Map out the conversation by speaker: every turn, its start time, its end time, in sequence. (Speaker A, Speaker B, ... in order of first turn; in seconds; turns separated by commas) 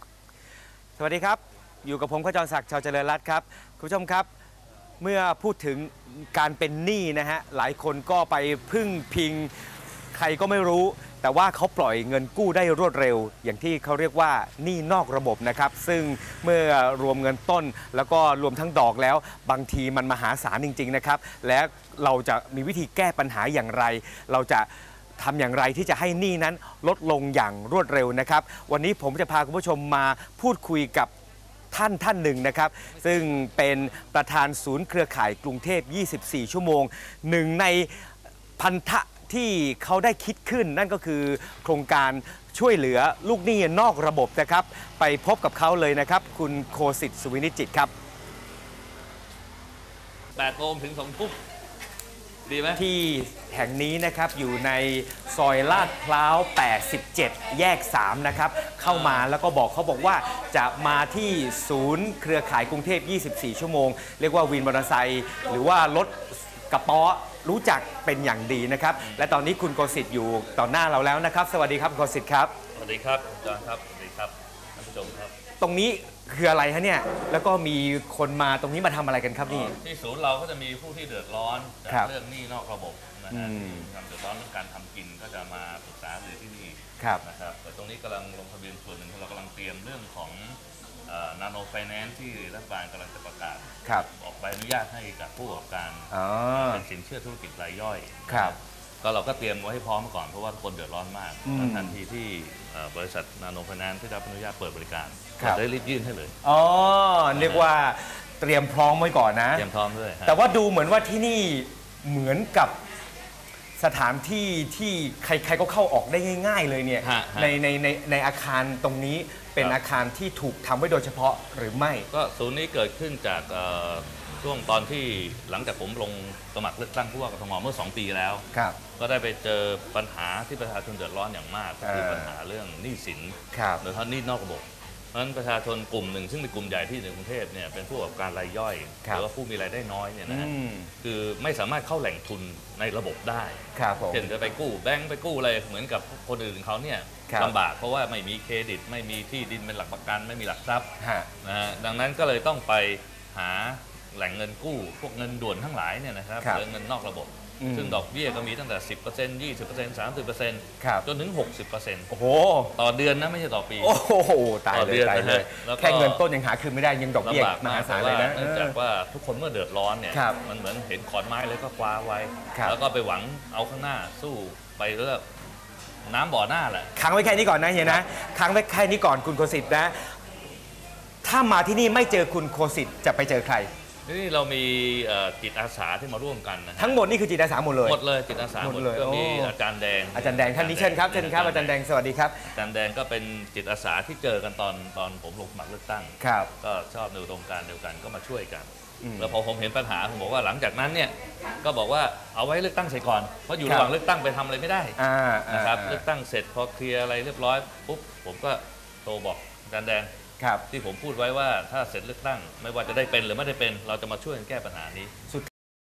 Speaker A: 1.0-4.3, Speaker A: 5.0-31.1, Speaker A: 31.7-47.9, Speaker B: 50.4-51.4, Speaker B: 52.5-52.8, Speaker A: 52.7-72.5, Speaker B: 58.8-59.3, Speaker B: 69.0-69.3, Speaker B: 72.7-75.3, Speaker A: 75.6-79.7, Speaker B: 79.5-106.3, Speaker A: 83.3-83.9, Speaker A: 96.1-96.8, Speaker A: 98.3-98.5, Speaker A: 101.4-102.0, Speaker A: 106.4-109.7, Speaker B: 107.3-107.7, Speaker B: 109.5-110.4, Speaker A: 110.2-112.7, Speaker A: 113.8-122.1, Speaker B: 117.0-117.6, Speaker B: 122.1-128.4, Speaker A: 128.5-128.8, Speaker B: 129.0-150.9, Speaker A: 131.8-132.3, Speaker A: 133.5-133.8, Speaker A: 140.3-140.9, Speaker A: 143.7-144.5, Speaker A: 147.3-147.5, Speaker A: 151.0-151.3, Speaker B: 151.4-162.1, Speaker A: 157.6-158.0, Speaker A: 162.1-162.7, Speaker B: 162.7-163.9, Speaker A: 163.8-168.8, Speaker B: 164.7-166.2, Speaker B: 167.2-175.2, Speaker A: 170.1-170.4, Speaker B: 176.1-176.9, Speaker A: 176.9-180.0, Speaker A: 181.2-183.7, Speaker B: 184.1-187.0, Speaker A: 186.8-188.0, Speaker B: 187.8-191.8, Speaker A: 188.6-189.5, Speaker A: 190.1-192.5, Speaker B: 192.4-210.1, Speaker A: 196.2-196.5, Speaker A: 199.0-199.3, Speaker A: 203.6-203.9, Speaker A: 205.0-206.0, Speaker A: 210.4-210.6, Speaker B: 210.7-215.1